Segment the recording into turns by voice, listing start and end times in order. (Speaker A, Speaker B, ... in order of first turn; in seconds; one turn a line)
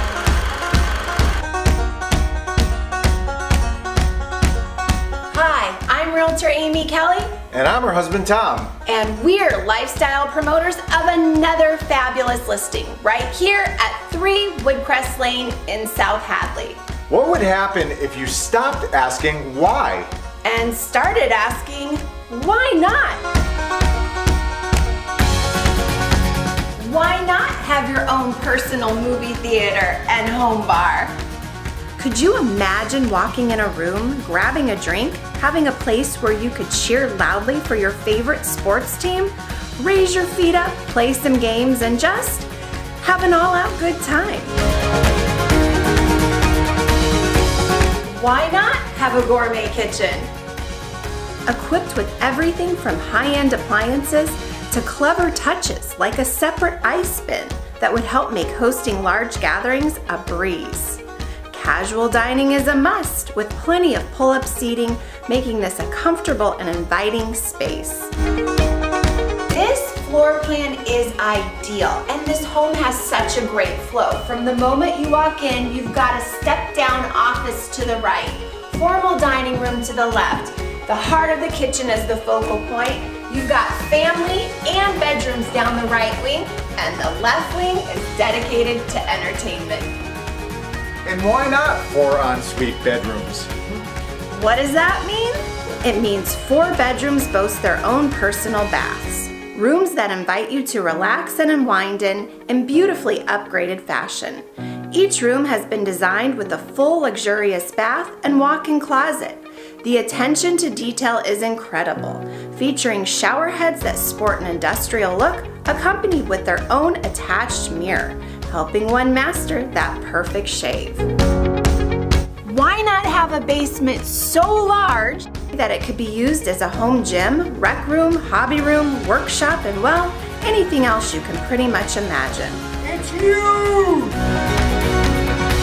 Speaker A: 5.3-7.3
Speaker B: 7.5-8.7
Speaker A: 8.8-16.8
Speaker B: 17.1-20.1
Speaker A: 20.4-23.2
Speaker A: 26.8-31.2
Speaker A: 32.0-42.5
Speaker A: 43.0-44.5
Speaker A: 48.0-50.3
Speaker A: 51.5-68.1
Speaker A: 69.5-89.9
Speaker B: 91.0-93.5
Speaker A: 94.3-121.0
Speaker A: 122.4-132.8
Speaker B: 132.8-134.1